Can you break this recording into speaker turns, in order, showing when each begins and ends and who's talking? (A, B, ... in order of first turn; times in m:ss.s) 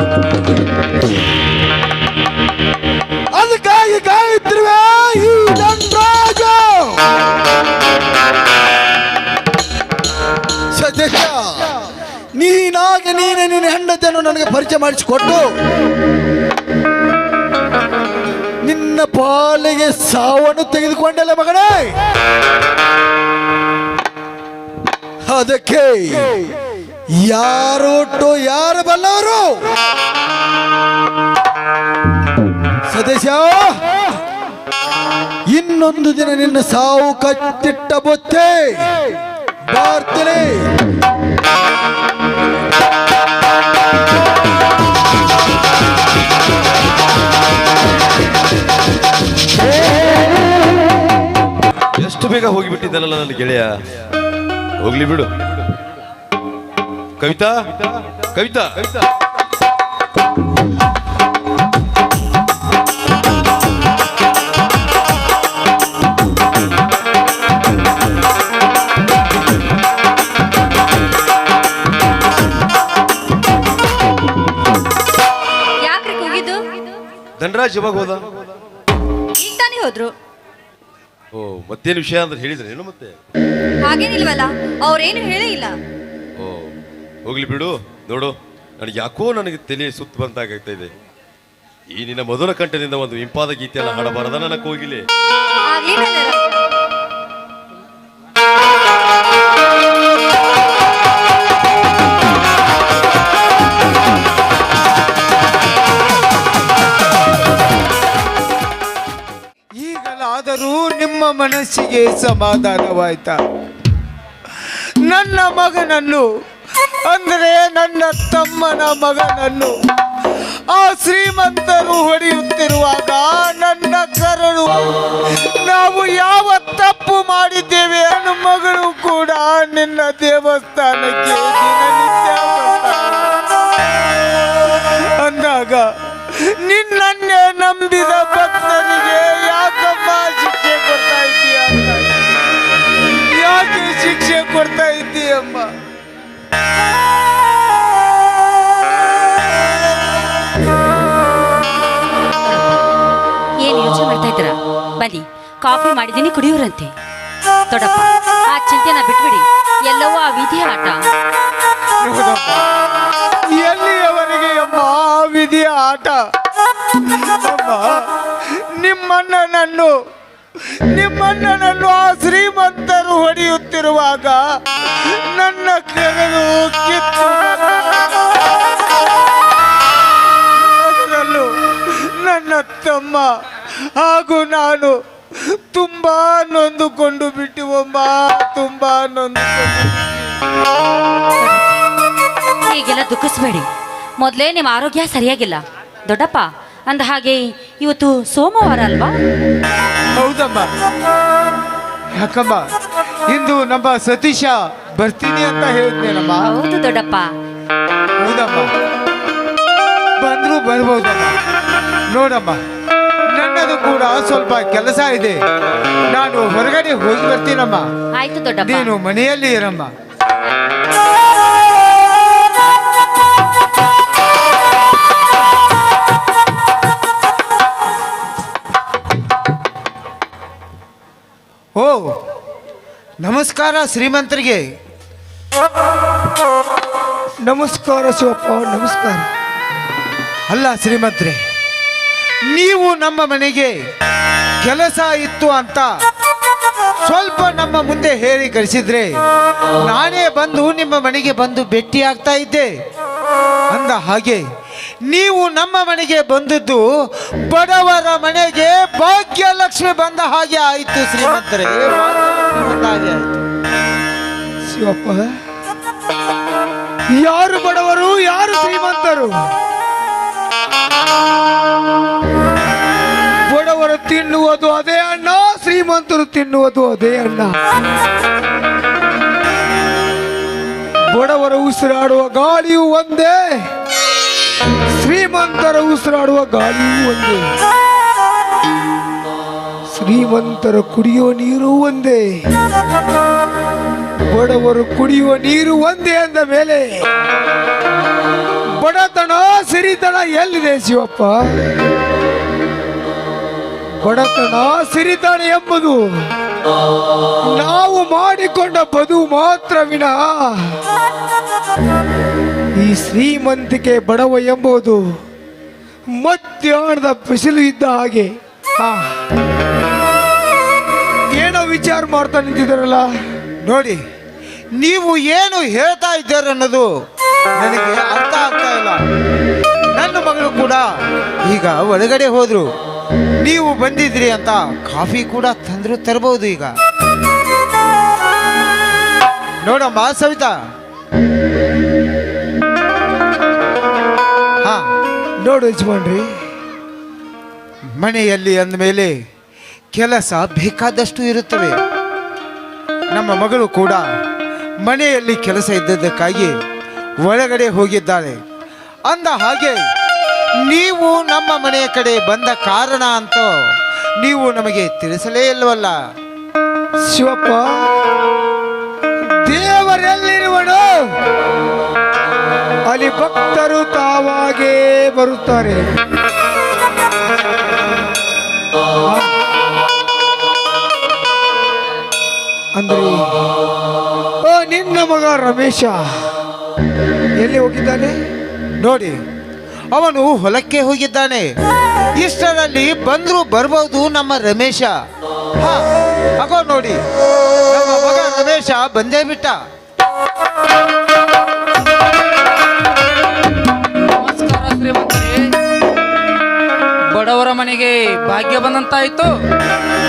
0:03.4-0:07.0 A
0:10.8-0:11.7 A
0:12.4-0:15.5 A
0:18.6-0:21.9 A
0:25.3-0:26.4 A
0:27.2-0:29.5 A
0:32.9-0:34.0 A
0:35.5-0:38.9 A
0:39.7-0:40.7 A
0:52.0-0:53.8 B
0:54.8-0:55.3 B
0:57.2-0:59.0 B
1:15.8-1:16.9 C
1:17.4-1:18.3 B
1:19.4-1:20.1 C
1:21.3-1:23.2 B
1:23.8-1:25.8 C
1:26.4-1:26.7 B
1:27.3-1:30.9 B
1:31.9-1:35.1 B
1:35.7-1:36.6 C
1:49.8-1:53.4 D
1:55.0-1:56.3 D
1:57.1-1:59.7 D
2:00.7-2:13.3 D
2:14.7-2:22.1 D
2:23.3-2:25.7 D
2:32.4-2:32.8 E
2:33.6-2:36.9 E
2:37.7-2:41.0 E
2:42.0-2:42.6 D
2:43.5-2:46.2 D
2:47.1-2:47.9 D
2:48.8-2:49.9 D
2:50.9-2:58.8 D
3:00.8-3:03.3 D
3:04.0-3:04.9 D
3:05.7-3:10.3 D
3:11.4-3:11.7 E
3:12.7-3:13.7 E
3:14.2-3:19.1 E
3:20.2-3:20.7 D
3:22.2-3:22.7 D
3:23.3-3:26.5 D
3:26.4-3:27.3 E
3:28.2-3:28.7 D
3:30.2-3:31.4 D
3:32.1-3:32.6 D
3:33.4-3:35.4 D
3:36.1-3:37.9 D
3:38.2-3:38.9 E
3:38.6-3:39.9 D
3:51.8-3:52.1 D
3:53.2-3:54.6 D
3:57.5-3:59.3 F
4:00.5-4:01.4 D
4:02.5-4:03.7 D
4:04.6-4:05.9 D
4:07.0-4:09.1 D
4:09.9-4:12.7 D
4:13.7-4:14.4 D
4:15.0-4:16.8 D
4:17.5-4:23.3 D
4:24.7-4:25.3 F
4:27.2-4:29.3 F
4:33.5-4:37.6 F
4:41.1-4:43.4 F
4:45.0-4:47.4 F
4:49.9-4:52.2 F
4:54.3-4:56.9 F
4:58.8-5:01.4 F
5:04.0-5:06.0 F
5:07.5-5:10.8 F
5:12.8-5:15.0 F
5:16.2-5:19.1 F
5:21.4-5:23.1 F
5:23.6-5:24.0 D
5:24.8-5:26.9 D
5:27.6-5:29.0 D
5:29.9-5:30.8 D
5:31.5-5:32.7 D
5:33.4-5:36.8 D
5:39.6-5:40.5 D
5:45.4-5:46.2 F
5:48.0-5:49.1 D
5:49.9-5:51.8 D
5:53.1-5:54.0 D
5:54.8-5:56.5 D
5:57.2-5:58.4 D
5:59.1-5:59.8 D
6:00.7-6:03.5 D
6:04.2-6:05.9 D
6:07.1-6:07.7 F
6:09.4-6:11.0 F
6:12.9-6:15.8 F
6:22.8-6:23.2 F
6:24.4-6:26.0 F
6:27.4-6:28.1 F
6:28.8-6:29.2 D
6:29.9-6:31.5 D
6:32.2-6:34.9 D
6:35.6-6:35.9 D
6:36.4-6:37.0 D
6:37.7-6:39.6 D
6:44.1-6:45.5 G
6:47.2-6:49.3 G